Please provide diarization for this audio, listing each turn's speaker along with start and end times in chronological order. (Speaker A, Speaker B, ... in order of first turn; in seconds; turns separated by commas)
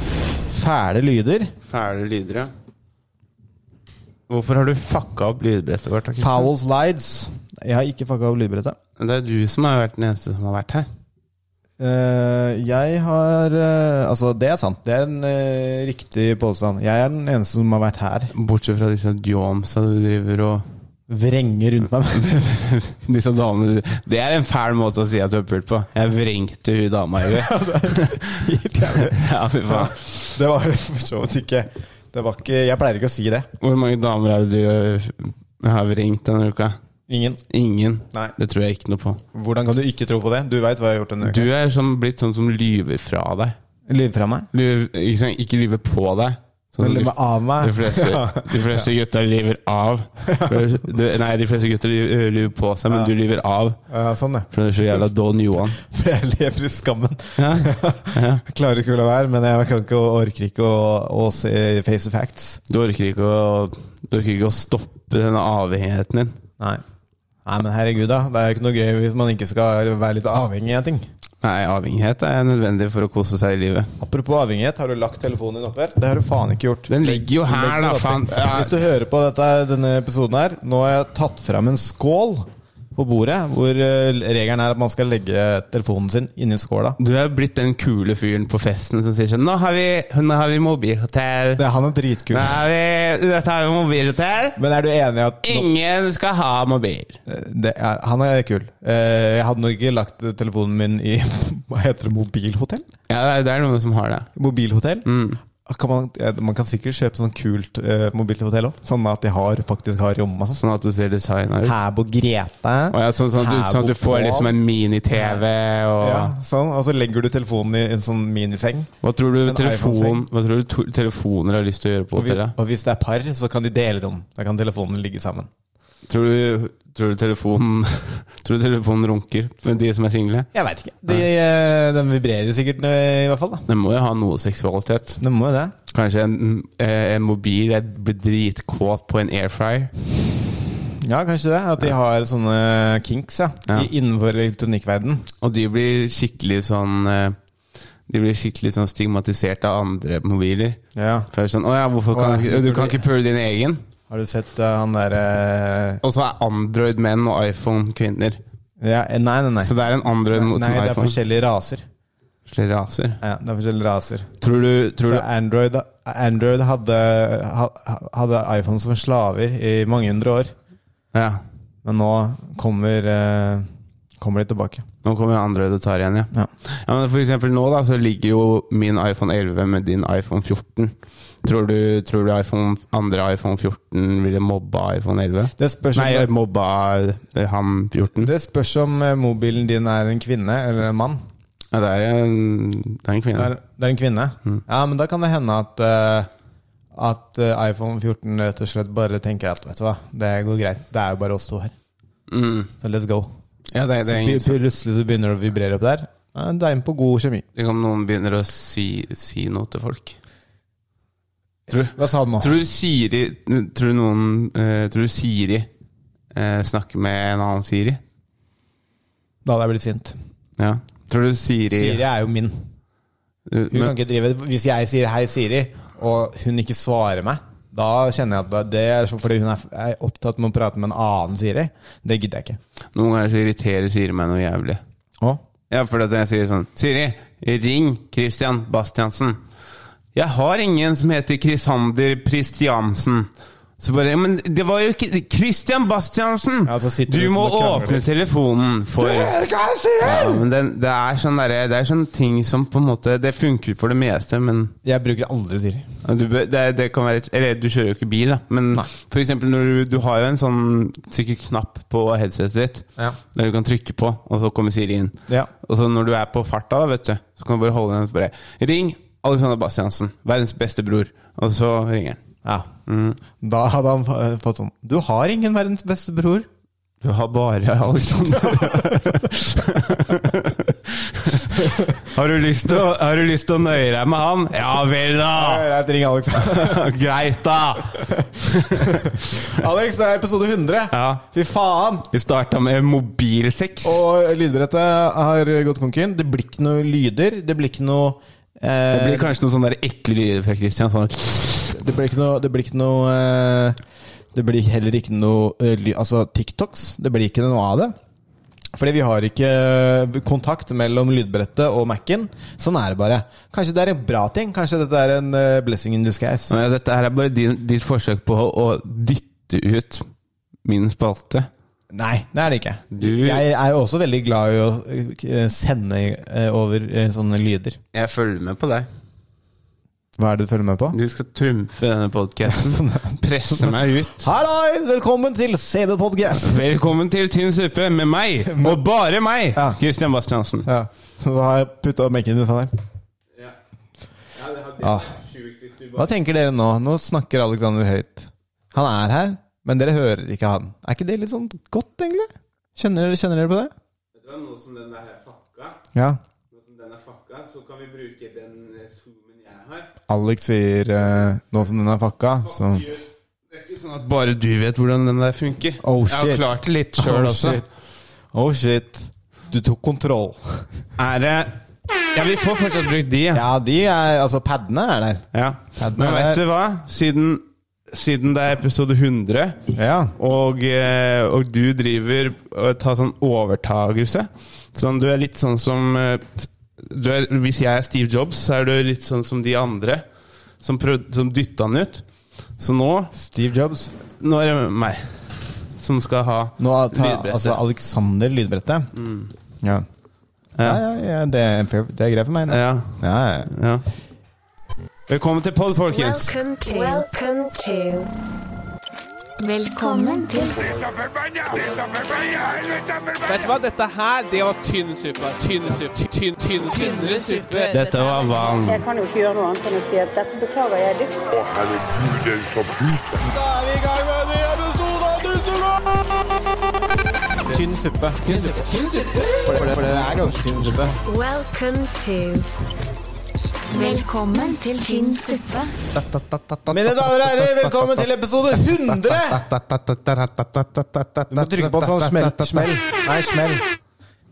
Speaker A: 0.5-1.5, Speaker B: 1.7-2.5, Speaker B: 4.3-6.5, Speaker A: 6.2-8.8, Speaker B: 9.0-10.9, Speaker A: 11.8-18.3, Speaker B: 18.3-20.6, Speaker A: 21.1-22.5, Speaker B: 22.1-30.1, Speaker A: 27.2-33.5, Speaker B: 33.6-36.8, Speaker A: 37.1-37.4, Speaker B: 37.5-39.2, Speaker A: 39.3-41.5, Speaker B: 41.2-43.6, Speaker A: 43.9-44.5, Speaker B: 44.5-53.8, Speaker A: 46.8-48.9, Speaker A: 50.2-50.8, Speaker A: 53.9-54.5, Speaker B: 54.5-55.8, Speaker A: 55.8-62.6, Speaker B: 57.4-58.4, Speaker B: 62.7-66.4, Speaker A: 67.4-71.0, Speaker B: 71.4-73.9, Speaker A: 74.0-87.0, Speaker B: 76.9-78.8, Speaker B: 87.0-91.6, Speaker A: 91.6-92.5, Speaker B: 92.3-94.6, Speaker A: 94.6-95.7, Speaker B: 95.4-97.2, Speaker A: 97.3-102.9, Speaker B: 103.1-104.3, Speaker A: 104.3-105.1, Speaker B: 105.0-105.4, Speaker A: 105.6-110.6, Speaker B: 110.6-111.8, Speaker A: 111.6-114.5, Speaker B: 112.9-116.3, Speaker A: 115.1-115.4, Speaker A: 116.0-118.9, Speaker B: 119.0-122.5, Speaker A: 119.5-120.2, Speaker A: 122.2-125.5, Speaker B: 126.1-130.5, Speaker A: 130.5-133.7, Speaker B: 133.7-135.2, Speaker A: 135.2-135.7, Speaker B: 135.9-139.9, Speaker A: 141.0-145.3, Speaker B: 145.4-147.4, Speaker B: 148.1-150.8, Speaker A: 150.9-151.3, Speaker B: 151.3-153.8, Speaker A: 152.1-153.0, Speaker A: 154.1-156.0, Speaker B: 156.0-158.4, Speaker A: 158.8-159.7, Speaker B: 159.6-161.2, Speaker A: 160.3-161.8, Speaker B: 162.4-163.2, Speaker A: 163.2-164.3, Speaker B: 164.4-165.2, Speaker A: 165.0-170.5, Speaker B: 171.1-171.4, Speaker A: 171.8-173.7, Speaker A: 174.2-174.8, Speaker B: 175.0-188.3, Speaker A: 185.6-186.3, Speaker A: 188.2-191.2, Speaker B: 191.7-193.5, Speaker A: 193.3-196.3, Speaker A: 196.9-201.7, Speaker B: 202.3-202.7, Speaker A: 202.8-203.3, Speaker B: 203.7-204.6, Speaker A: 204.1-207.4, Speaker B: 207.5-210.2, Speaker A: 211.7-212.6, Speaker B: 211.7-215.7, Speaker B: 216.3-218.0, Speaker A: 219.4-220.2, Speaker B: 220.6-222.0, Speaker A: 221.7-222.7, Speaker B: 223.5-223.9, Speaker A: 223.7-232.6, Speaker B: 232.9-234.8, Speaker B: 235.7-239.4, Speaker B: 240.1-249.4, Speaker A: 246.7-248.0, Speaker A: 249.0-250.4, Speaker B: 250.0-254.7, Speaker A: 254.8-255.9, Speaker B: 256.0-272.2, Speaker B: 272.9-273.2, Speaker A: 273.4-276.5, Speaker B: 277.0-285.6, Speaker A: 281.5-281.8, Speaker A: 285.3-286.8, Speaker B: 286.4-289.5, Speaker A: 288.1-292.1, Speaker B: 290.9-291.2, Speaker B: 292.1-294.0, Speaker A: 293.8-299.3, Speaker B: 298.9-301.8, Speaker A: 301.7-303.8, Speaker A: 304.3-307.9, Speaker A: 308.8-316.5, Speaker B: 316.5-320.1, Speaker B: 320.6-321.5, Speaker A: 321.9-327.8, Speaker B: 322.9-323.5, Speaker B: 327.9-328.9, Speaker A: 330.2-331.0, Speaker B: 330.9-334.3, Speaker A: 332.5-336.6, Speaker B: 336.3-340.7, Speaker A: 338.5-338.8, Speaker A: 340.6-342.7, Speaker B: 344.3-346.1, Speaker A: 344.8-345.1, Speaker A: 345.9-353.7, Speaker B: 354.1-355.8, Speaker B: 356.5-359.9, Speaker A: 360.1-362.9, Speaker B: 362.6-367.6, Speaker A: 365.8-367.6, Speaker A: 368.3-370.7, Speaker B: 371.0-371.6, Speaker B: 372.1-373.4, Speaker A: 373.3-375.2, Speaker B: 375.3-379.6, Speaker A: 375.8-376.4, Speaker A: 379.7-380.1, Speaker B: 380.2-390.0, Speaker B: 390.6-392.0, Speaker B: 392.6-393.1, Speaker A: 393.1-393.9, Speaker B: 394.2-397.6, Speaker A: 396.6-398.9, Speaker B: 398.9-399.3, Speaker A: 400.6-403.5, Speaker B: 402.5-403.8, Speaker B: 405.1-406.4, Speaker C: 405.9-408.1, Speaker D: 406.6-407.1, Speaker D: 409.4-410.9, Speaker E: 411.4-412.8, Speaker F: 413.2-418.0, Speaker B: 417.7-418.8, Speaker G: 418.5-421.3, Speaker E: 421.3-423.3, Speaker A: 423.2-426.1, Speaker A: 427.4-430.9, Speaker C: 431.0-432.5, Speaker D: 433.7-435.8, Speaker B: 435.9-442.7, Speaker A: 436.7-439.4, Speaker A: 441.3-443.6